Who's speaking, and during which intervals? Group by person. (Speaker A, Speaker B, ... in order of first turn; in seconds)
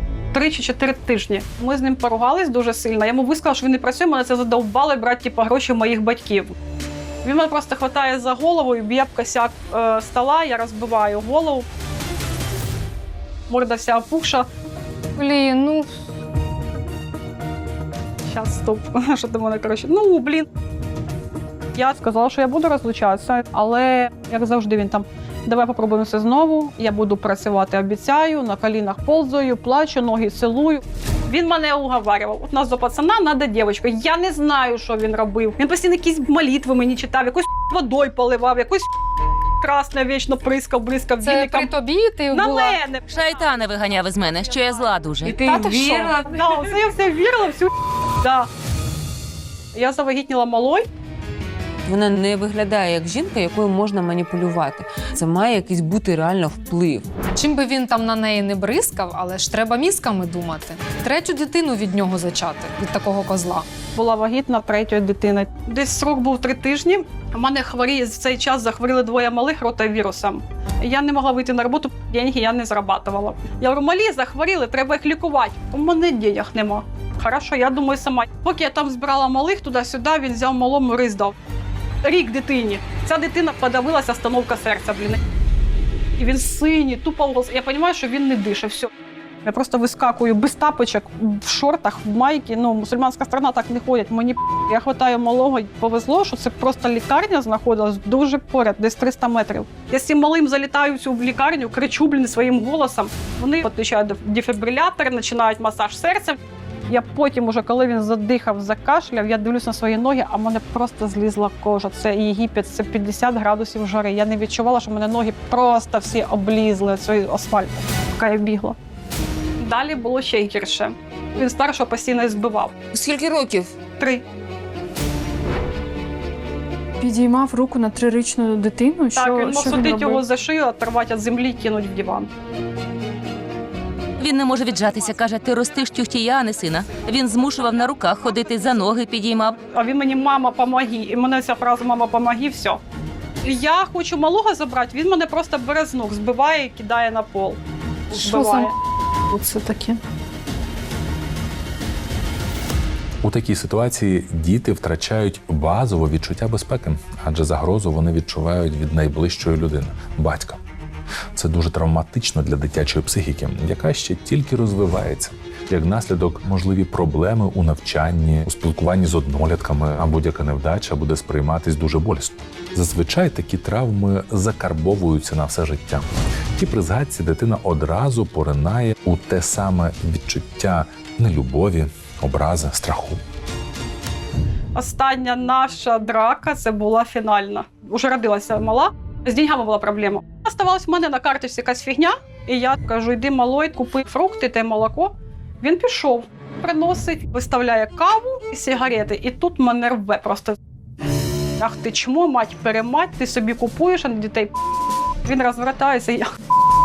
Speaker A: 0.3-6.5, 7.2-11.7, 13.5-14.5, 18.2-20.5, 21.7-38.9, 39.6-41.7, 42.3-43.0, 45.5-48.5, 49.7-50.9, 63.9-81.3, 82.0-85.2, 86.2-88.9, 89.4-106.4, 106.9-118.8, 119.6-122.7, 124.0-124.2, 129.1-132.3, 139.7-142.8, 143.4-148.7, 184.7-200.6, 201.6-204.5, 205.2-206.3
Speaker B: 15.2-15.9, 41.2-42.8, 57.3-63.6
Speaker C: 43.1-46.2, 122.9-123.7, 134.2-139.6
Speaker D: 45.5-45.9, 51.9-57.1
Speaker E: 127.0-130.2, 148.1-148.7, 149.3-150.0
Speaker F: 153.2-160.6, 161.3-183.2